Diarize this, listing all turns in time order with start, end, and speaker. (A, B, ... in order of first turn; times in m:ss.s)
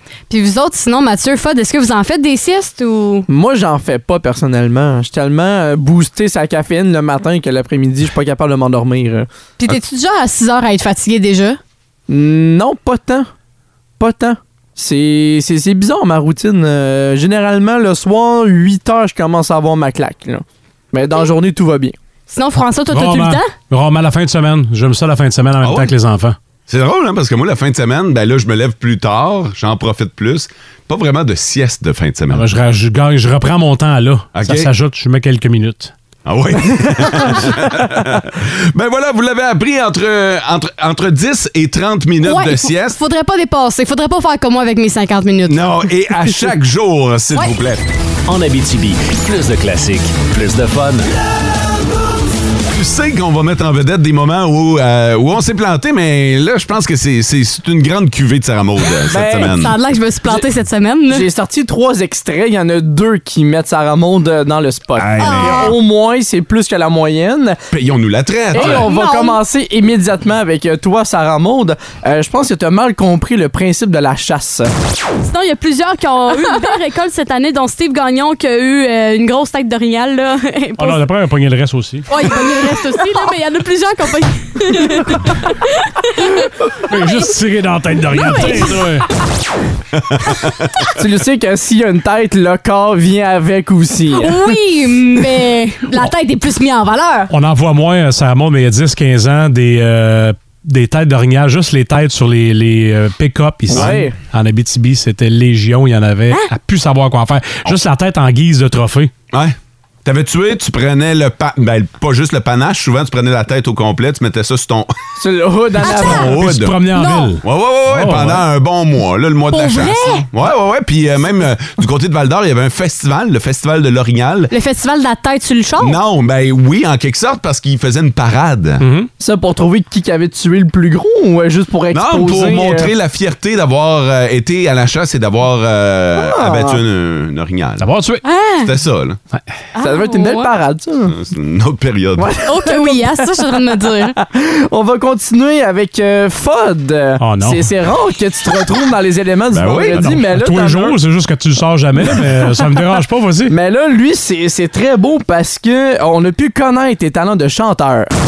0:00.3-0:03.2 A
0:03.3-0:09.3 B
0:09.6-0:11.6 A
0:12.1-0:13.3 B
0:14.0-0:21.9 B
0:22.3-0:23.5 A
0:22.9-0:26.4 C
0:25.6-0:25.9 D
0:26.7-0:32.5 D
0:32.3-0:35.9 C
0:34.3-0:34.7 D
0:36.2-0:43.0 D
0:42.2-0:45.6 A
0:45.5-0:47.8 D
0:48.3-0:51.1 E
0:52.7-0:59.7 D
0:59.0-0:59.5 B
0:59.5-1:01.3 A
1:01.1-1:07.6 B
1:05.0-1:05.6 D
1:05.2-1:05.7 A
1:07.7-1:08.9 D
1:08.5-1:14.7 B
1:08.5-1:09.4 A
1:15.2-1:21.0 A
1:20.8-1:22.0 C
1:22.1-1:26.5 A
1:26.9-1:29.1 C
1:28.1-1:28.8 A
1:31.0-1:34.5 B
1:34.2-1:37.3 A
1:37.3-1:49.1 C
1:43.7-1:44.0 D
1:43.7-1:44.1 B
1:49.3-1:54.9 D
1:55.2-1:56.3 B
1:55.8-1:56.2 A
1:55.9-1:58.4 C
1:56.0-1:56.8 D
1:56.9-1:57.3 A
1:57.4-2:04.5 D
1:59.5-2:00.3 A
2:04.5-2:06.0 A
2:05.8-2:08.8 D
2:08.8-2:09.1 C
2:09.2-2:12.9 B
2:11.9-2:17.9 D
2:16.2-2:16.8 B
2:17.8-2:18.2 C
2:18.2-2:18.7 A
2:18.6-2:19.2 D
2:19.7-2:20.5 A
2:19.8-2:21.1 B
2:21.1-2:22.3 D
2:22.2-2:23.2 B
2:22.4-2:24.2 A
2:24.1-2:31.0 B
2:27.2-2:27.7 C
2:29.5-2:30.1 D
2:29.6-2:33.5 C
2:33.5-2:38.1 B